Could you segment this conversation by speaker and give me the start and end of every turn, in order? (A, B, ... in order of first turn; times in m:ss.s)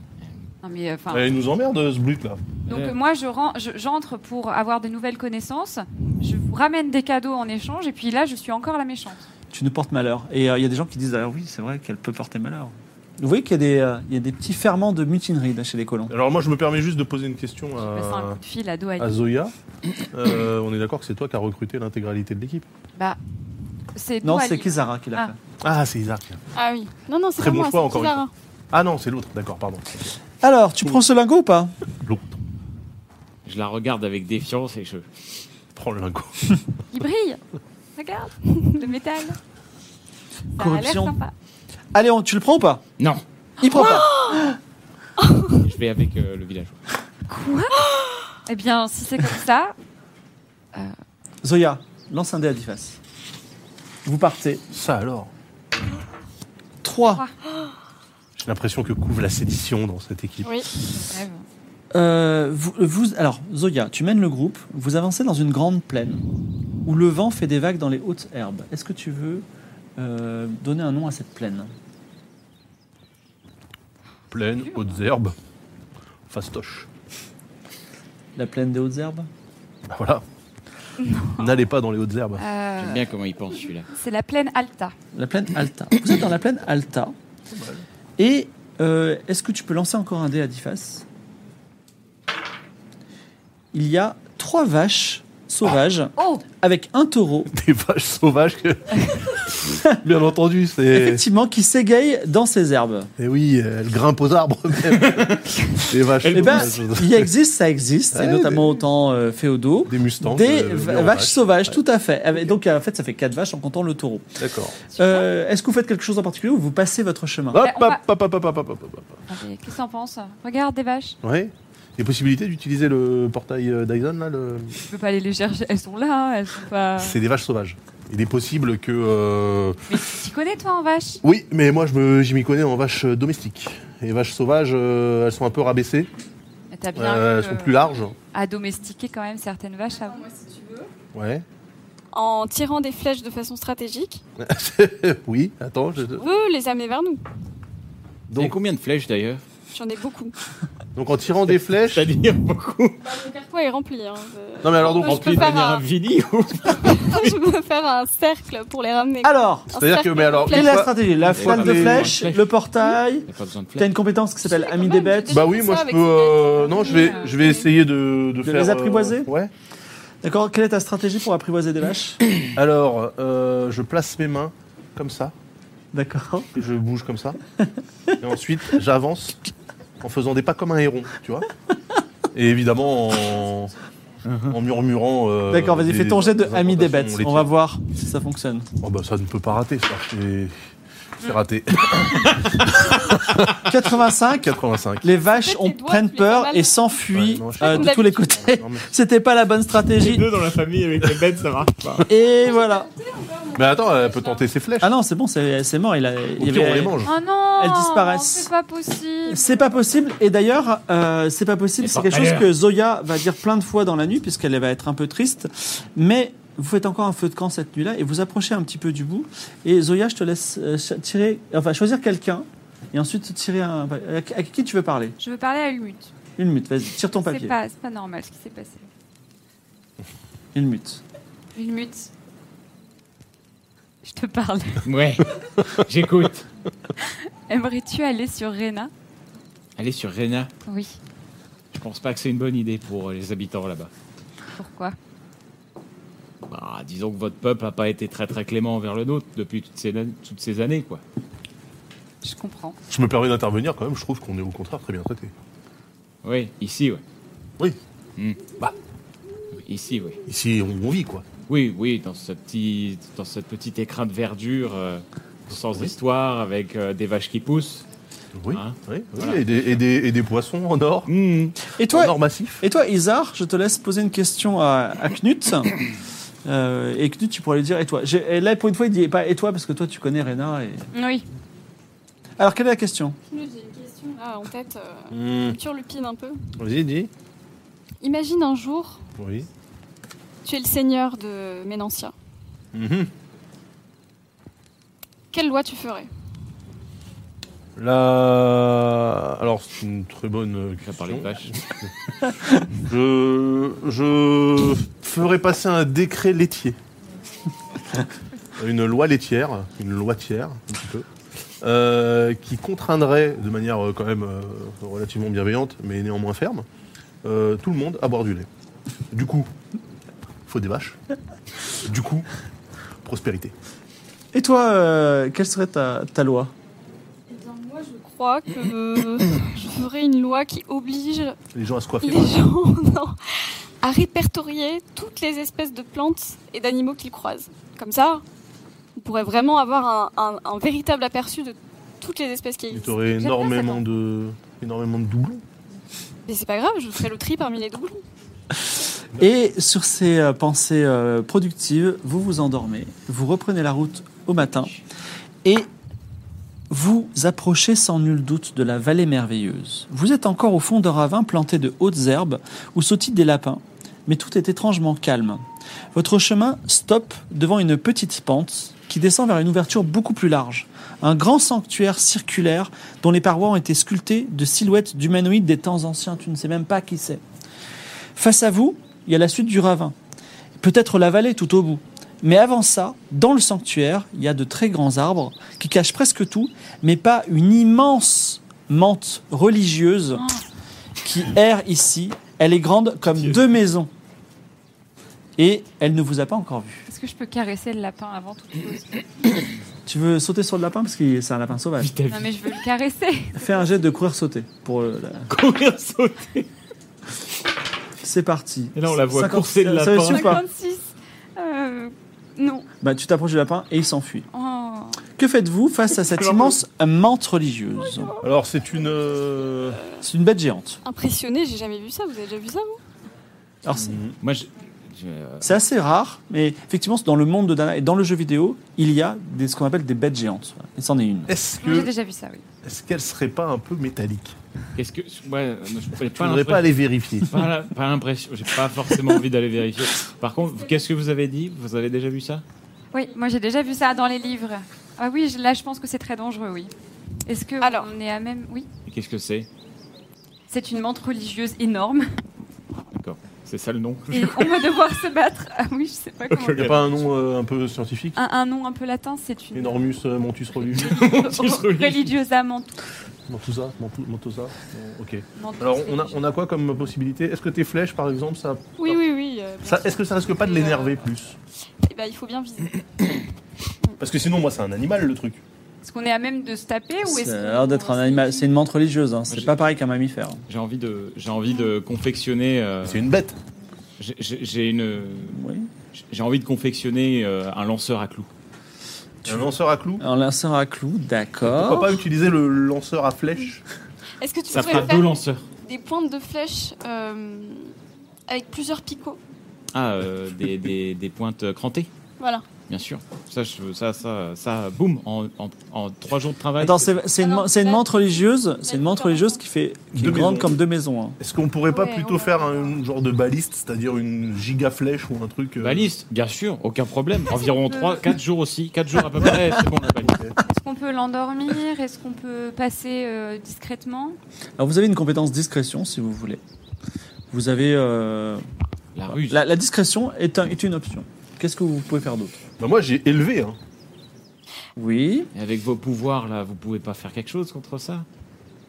0:00.6-0:01.3 A
0:01.1-0:02.4 B
0:02.7-0:09.2 A
0:02.7-0:03.0 C
0:09.5-0:16.1 C
0:16.1-0:18.4 B
0:17.8-0:19.3 A
0:19.0-0:19.5 B
0:20.1-0:22.6 B
0:23.9-0:25.3 A
0:24.2-0:25.4 C
0:25.6-0:26.4 B
0:26.5-0:28.3 D
0:27.4-0:29.9 B
0:30.4-0:31.7 C
0:32.0-0:32.4 B
0:33.4-0:35.0 E
0:35.7-0:36.6 B
0:36.9-0:37.4 A
0:38.0-0:39.4 A
0:40.5-0:41.3 A
0:40.6-0:41.2 C
0:41.9-0:42.8 C
0:43.6-0:44.6 C
0:43.7-0:44.5 D
0:45.2-0:45.6 D
0:45.5-0:46.8 E
0:47.3-0:47.9 A
0:48.4-0:49.7 A
0:51.4-0:53.0 C
0:54.0-0:54.6 C
0:54.7-0:55.3 B
0:56.8-0:57.2 C
0:58.4-1:00.5 B
1:00.4-1:00.7 D
1:00.9-1:01.4 A
1:01.9-1:06.2 C
1:06.8-1:09.4 C
1:10.0-1:11.7 C
1:14.3-1:15.3 B
1:16.3-1:16.9 B
1:18.4-1:19.3 C
1:19.9-1:20.2 B
1:21.0-1:21.4 D
1:21.3-1:22.4 B
1:22.4-1:23.0 A
1:22.8-1:23.9 E
1:23.9-1:24.9 A
1:25.1-1:27.1 C
1:27.5-1:27.8 B
1:28.2-1:31.0 C
1:33.7-1:37.5 C
1:36.2-1:36.4 A
1:37.5-1:41.2 B
1:40.9-1:43.1 C
1:43.2-1:47.3 B
1:44.9-1:45.4 E
1:46.2-1:46.8 E
1:46.3-1:54.4 C
1:48.1-1:48.8 B
1:49.8-1:51.8 B
1:54.4-1:54.8 B
1:54.9-1:55.3 A
1:54.9-1:57.7 C
1:57.5-1:59.2 B
1:57.6-1:58.0 A
1:59.3-2:01.2 A
2:01.2-2:04.8 B
2:04.9-2:07.2 A
2:07.0-2:09.8 B
2:09.9-2:11.2 A
2:11.2-2:16.1 B
2:16.7-2:20.2 A
2:16.9-2:18.1 B
2:19.9-2:20.9 D
2:21.1-2:21.4 B
2:22.1-2:24.2 D
2:24.4-2:26.3 B
2:26.2-2:27.2 D
2:28.3-2:28.5 B
2:28.3-2:29.4 E
2:29.7-2:30.3 D
2:30.9-2:32.1 B
2:31.5-2:33.0 E
2:33.0-2:35.8 D
2:34.6-2:35.6 B
2:35.0-2:37.3 E
2:36.7-2:40.9 D
2:39.2-2:39.7 C
2:39.7-2:42.2 B
2:40.5-2:45.5 C
2:41.3-2:42.5 E
2:43.2-2:43.9 E
2:44.4-2:47.7 D
2:45.3-2:49.5 B
2:46.7-2:47.3 A
2:48.4-2:49.3 C
2:50.2-2:52.2 C
2:52.5-2:55.3 B
2:55.9-2:56.5 C
2:56.5-2:57.4 B
2:57.6-2:58.1 C
2:58.2-2:59.4 B
3:00.0-3:01.5 B
3:02.3-3:03.7 B
3:04.2-3:04.6 E
3:04.5-3:07.5 B
3:05.5-3:08.7 C
3:08.8-3:10.5 B
3:11.2-3:15.1 B
3:13.6-3:20.3 C
3:15.2-3:16.9 D
3:17.1-3:18.9 B
3:17.6-3:18.4 D
3:20.0-3:22.0 E
3:22.1-3:22.9 C
3:22.4-3:24.1 D
3:23.5-3:24.9 B
3:24.8-3:27.0 C
3:26.4-3:27.1 B
3:27.0-3:29.6 A
3:27.6-3:28.5 C
3:29.3-3:45.2 C
3:31.8-3:32.5 E
3:45.2-3:46.1 A
3:46.4-3:47.6 C
3:47.2-3:48.8 A
3:50.5-3:51.0 C
3:51.5-3:52.1 A
3:54.0-3:54.9 A
3:54.8-3:56.4 E
3:57.5-3:58.9 A
3:59.8-4:00.5 E
4:00.6-4:01.0 A
4:01.7-4:03.9 E
4:04.6-4:05.0 A
4:06.5-4:11.0 E
4:12.2-4:12.8 A
4:12.9-4:15.3 B
4:16.2-4:17.0 E
4:19.6-4:20.2 E
4:20.3-4:21.2 B
4:21.5-4:27.8 E
4:28.4-4:31.1 B
4:28.5-4:29.4 E
4:31.1-4:31.6 E
4:31.7-4:35.8 C
4:31.9-4:32.6 B
4:36.4-4:40.9 C
4:40.9-4:41.3 A
4:42.4-4:43.2 C
4:43.3-4:46.5 D
4:45.1-4:45.6 B
4:46.6-4:47.1 B
4:48.0-4:49.0 D
4:49.2-4:49.5 B
4:50.4-4:52.1 D
4:52.7-4:53.1 B
4:55.3-4:56.1 D
4:57.8-5:01.9 B
5:00.8-5:01.6 E
5:02.7-5:06.8 B
5:08.6-5:11.0 B
5:11.6-5:16.6 B
5:17.2-5:18.5 B
5:19.1-5:19.5 B
5:20.5-5:21.0 B
5:21.8-5:22.3 B
5:23.0-5:23.5 B
5:24.3-5:26.5 C
5:27.3-5:31.4 D
5:31.5-5:32.4 B
5:32.0-5:33.2 D
5:33.8-5:38.2 D
5:39.0-5:42.9 D
5:42.7-5:45.4 B
5:43.2-5:43.8 A
5:46.3-5:48.0 D
5:49.2-5:54.8 C
5:56.7-6:05.4 C
6:05.9-6:17.2 C
6:18.1-6:19.9 C
6:20.6-6:30.2 C
6:30.1-6:30.4 A
6:31.0-6:33.9 C
6:33.1-6:33.4 E
6:35.4-6:36.8 C
6:36.9-6:39.0 A
6:39.8-6:41.9 C
6:41.8-6:42.4 E
6:42.1-6:43.4 A
6:43.4-6:45.3 C
6:45.3-6:46.5 E
6:48.0-6:50.4 C
6:48.7-6:50.4 E
6:50.1-6:50.4 D
6:50.2-6:52.7 A
6:52.8-6:54.3 C
6:54.3-6:55.0 A
6:55.2-6:58.1 C
6:56.0-6:56.6 E
6:57.9-6:58.2 D
6:58.2-6:59.8 B
7:00.0-7:00.8 C
7:00.8-7:02.8 D
7:03.6-7:04.0 C
7:03.7-7:04.1 B
7:04.2-7:05.5 E
7:05.4-7:11.3 C
7:11.3-7:11.9 B
7:11.6-7:12.4 A
7:12.6-7:14.3 B
7:14.7-7:22.4 E
7:16.1-7:17.3 B
7:22.9-7:26.7 A
7:27.2-7:28.7 A
7:27.6-7:27.9 D
7:28.8-7:29.5 E
7:30.5-7:32.1 A
7:32.9-7:34.7 E
7:34.1-7:36.7 A
7:36.3-7:37.0 E
7:36.6-7:38.2 B
7:38.2-7:39.8 A
7:39.5-7:41.0 B
7:40.6-7:42.1 E
7:40.7-7:42.8 A
7:43.3-7:49.0 B
7:45.4-7:46.2 A
7:48.8-7:51.0 D
7:49.6-7:51.4 B
7:51.8-7:52.8 D
7:54.0-7:55.4 B
7:55.8-7:58.5 A
7:57.0-8:00.4 C
7:59.3-7:59.6 E
8:00.5-8:03.1 E
8:02.8-8:03.4 B
8:04.0-8:05.4 E
8:05.3-8:05.7 C
8:05.9-8:08.3 E
8:09.2-8:12.0 C
8:09.2-8:10.0 B
8:11.4-8:13.6 B
8:14.2-8:17.7 D
8:14.5-8:15.5 E
8:18.3-8:19.2 D
8:19.7-8:21.9 E
8:22.2-8:22.4 D
8:22.7-8:26.9 E
8:26.6-8:31.2 C
8:27.2-8:27.8 D
8:28.6-8:29.3 D
8:29.9-8:30.6 B
8:31.2-8:35.9 B
8:31.7-8:32.7 D
8:35.6-8:40.2 E
8:37.3-8:38.1 A
8:40.0-8:40.3 B
8:40.4-8:44.2 A
8:44.6-8:46.4 C
8:47.3-8:48.4 C
8:48.9-8:49.4 E
8:49.1-8:52.3 C
8:52.6-8:53.6 B
8:54.8-8:55.3 C
8:55.3-8:58.0 E